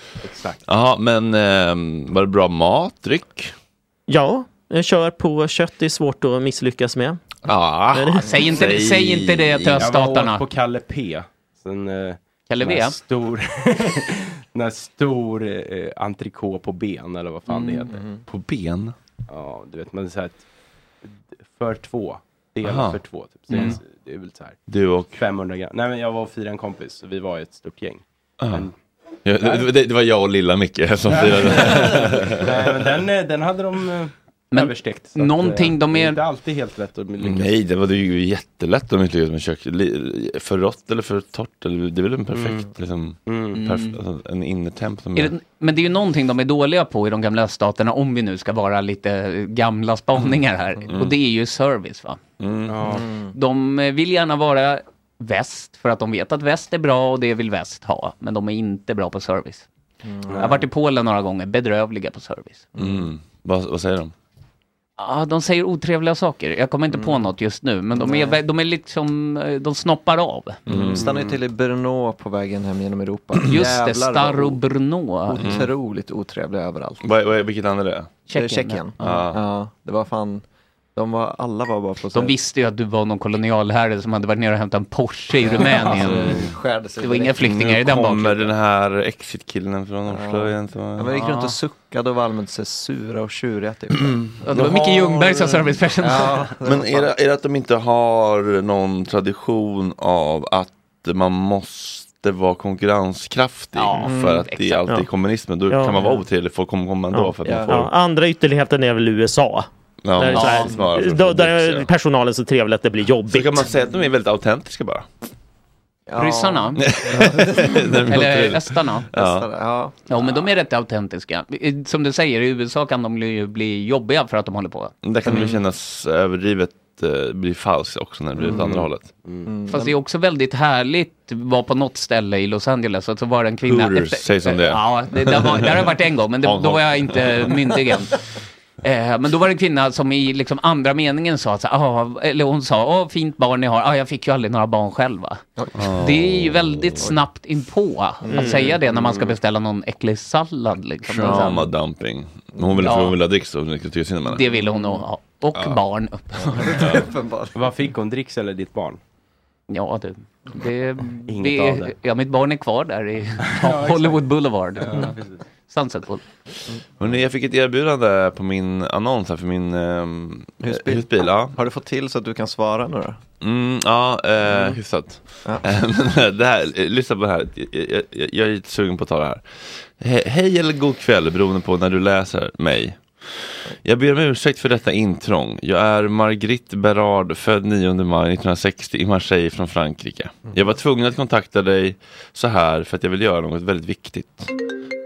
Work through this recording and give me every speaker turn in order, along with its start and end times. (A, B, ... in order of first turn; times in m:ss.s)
0:00.2-0:00.6 A
0:00.6-0:03.5 B
0:04.1-0:07.2 C
0:07.4-0:09.9 B
0:07.9-0:08.3 C
0:08.2-0:10.4 D
0:09.8-0:18.0 A
0:12.5-0:13.0 D
0:17.5-0:17.9 D
0:17.9-0:18.2 E
0:18.3-0:18.9 B
0:19.3-0:20.4 A
0:21.0-0:24.6 A
0:22.6-0:23.0 B
0:23.5-0:23.8 D
0:24.7-0:25.2 B
0:25.2-0:28.7 A
0:28.4-0:28.7 B
0:29.2-0:32.7 B
0:29.4-0:29.7 A
0:31.0-0:37.6 A
0:34.5-0:36.2 D
0:37.2-0:45.3 B
0:42.3-0:42.7 A
0:43.2-0:43.6 A
0:43.5-0:44.0 D
0:45.2-0:52.2 D
0:52.4-0:52.8 B
0:52.7-0:53.0 A
0:52.9-0:53.3 E
0:53.3-0:59.6 D
1:00.0-1:00.5 E
1:00.3-1:00.6 A
1:00.4-1:02.7 D
1:02.8-1:03.0 E
1:02.8-1:04.1 B
1:05.0-1:10.6 D
1:06.9-1:07.3 E
1:08.0-1:08.4 E
1:10.7-1:11.3 B
1:10.7-1:14.6 E
1:13.4-1:15.4 D
1:15.3-1:17.0 E
1:15.3-1:15.7 B
1:17.0-1:18.2 B
1:18.3-1:18.9 D
1:18.3-1:20.4 E
1:19.0-1:19.4 B
1:21.0-1:22.3 E
1:22.1-1:26.4 D
1:25.4-1:27.4 E
1:26.2-1:26.5 B
1:27.0-1:28.5 D
1:27.4-1:31.2 B
1:30.1-1:34.3 E
1:31.1-1:31.5 D
1:34.0-1:35.8 B
1:34.4-1:36.5 D
1:36.0-1:37.1 E
1:36.6-1:47.9 B
1:43.8-1:44.9 D
1:44.0-1:44.5 E
1:45.7-1:46.1 C
1:47.1-1:53.6 C
1:47.4-1:47.8 E
1:50.0-1:51.9 B
1:50.3-1:50.7 D
1:53.3-1:55.0 B
1:56.1-1:58.0 E
1:56.2-1:56.8 D
1:56.8-1:59.5 B
1:58.1-1:59.1 D
1:59.1-2:00.2 E
2:00.1-2:05.4 D
2:05.0-2:09.1 B
2:08.4-2:09.5 A
2:09.4-2:09.9 E
2:09.7-2:18.2 D
2:13.6-2:15.6 B
2:16.4-2:17.6 B
2:18.8-2:31.7 D
2:25.6-2:25.9 E
2:25.8-2:27.1 B
2:28.2-2:29.0 E
2:31.1-2:34.5 B
2:31.2-2:31.6 E
2:32.6-2:32.9 E
2:32.8-2:33.2 D
2:34.3-2:37.1 D
2:36.4-2:37.5 E
2:36.8-2:37.0 B
2:37.5-2:39.0 A
2:39.7-2:45.1 D
2:41.3-2:41.9 A
2:43.4-2:45.4 A
2:45.7-2:46.2 D
2:47.0-2:51.5 B
2:50.6-2:53.2 E
2:53.4-2:59.4 B
2:54.4-2:54.8 E
3:00.0-3:14.5 B